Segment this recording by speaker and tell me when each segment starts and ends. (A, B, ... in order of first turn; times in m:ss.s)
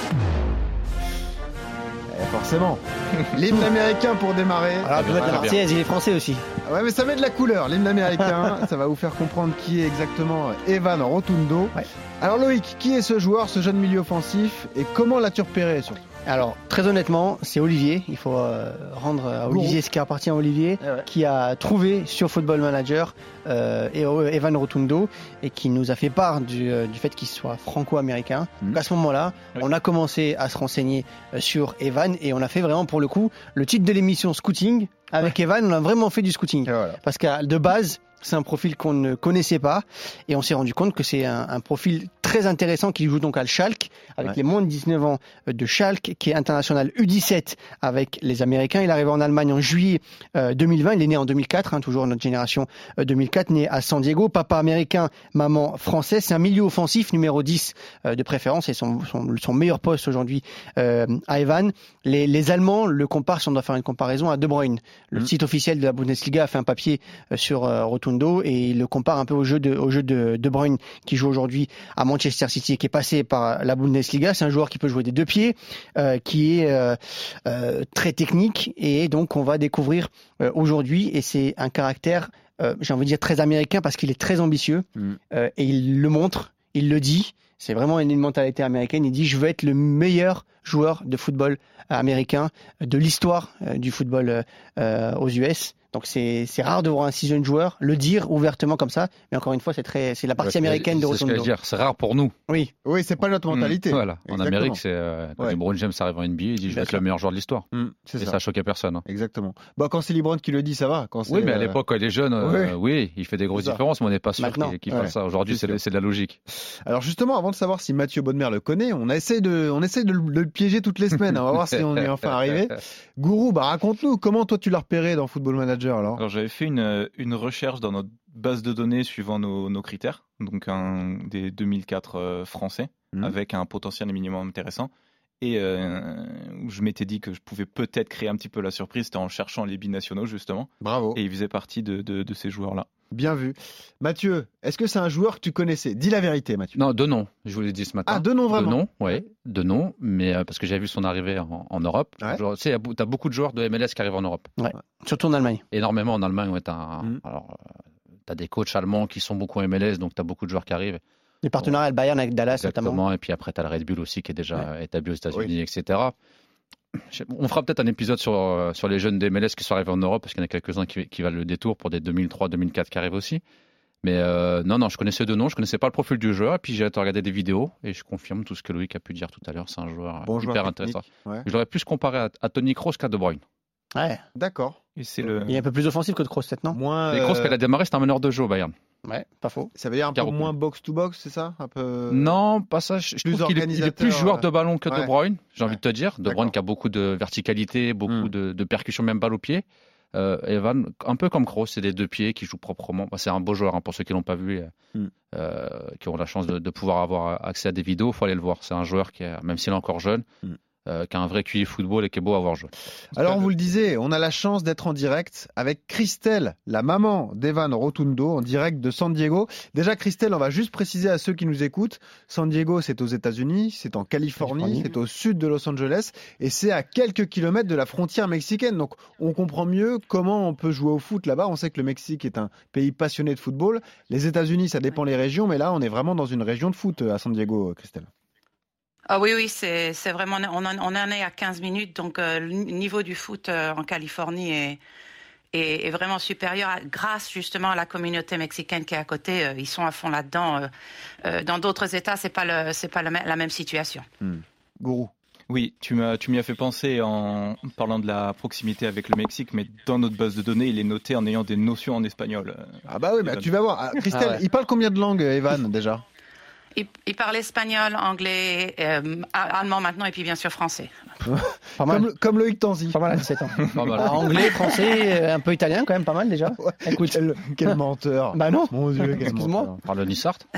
0:02.1-0:05.5 A
0:04.8-0:06.4 B
0:05.0-0:05.5 C
0:06.6-0:16.0 A
0:16.2-1:41.5 B
0:19.5-0:19.8 A
0:20.8-0:21.1 A
0:36.6-0:37.0 A
1:40.4-1:42.3 C
1:42.8-1:44.8 A
1:43.5-1:47.7 C
1:47.7-1:48.4 A
1:48.2-1:49.0 C
1:49.0-1:51.8 A
1:51.3-1:56.4 C
1:52.4-1:52.7 A
1:53.5-1:53.8 A
1:54.4-1:54.8 B
1:54.9-1:55.8 A
1:56.6-2:06.2 A
2:06.2-2:22.9 D
2:20.8-2:21.2 A
2:23.1-2:26.8 A
2:26.8-2:34.5 C
2:28.0-2:28.8 A
2:34.6-2:35.6 B
2:35.7-2:37.7 C
2:38.3-2:41.0 C
2:41.4-2:43.0 B
2:42.5-2:46.1 C
2:46.9-2:53.4 C
2:54.0-3:03.4 C
3:00.2-3:01.4 A
3:03.9-3:04.2 B
3:04.4-3:05.4 A
3:05.0-3:05.6 D
3:05.5-3:06.8 B
3:06.7-3:07.5 A
3:07.1-3:08.7 C
3:09.0-3:09.7 B
3:09.8-3:12.3 A
3:10.2-3:10.5 C
3:12.1-3:24.7 C
3:13.2-3:15.1 A
3:15.6-3:16.5 A
3:25.3-3:30.2 C
3:30.8-3:32.7 C
3:33.1-3:58.1 A
3:44.5-3:44.9 B
3:59.1-4:04.8 E
4:05.5-4:10.7 E
4:11.2-4:14.0 E
4:14.2-4:15.1 A
4:15.5-4:23.5 D
4:22.9-4:26.0 A
4:24.1-4:24.4 B
4:26.7-4:30.9 E
4:31.2-4:33.0 A
4:31.8-4:32.0 B
4:32.9-4:37.8 B
4:33.7-4:34.5 C
4:36.6-4:39.8 A
4:38.3-4:39.7 B
4:39.8-4:40.4 C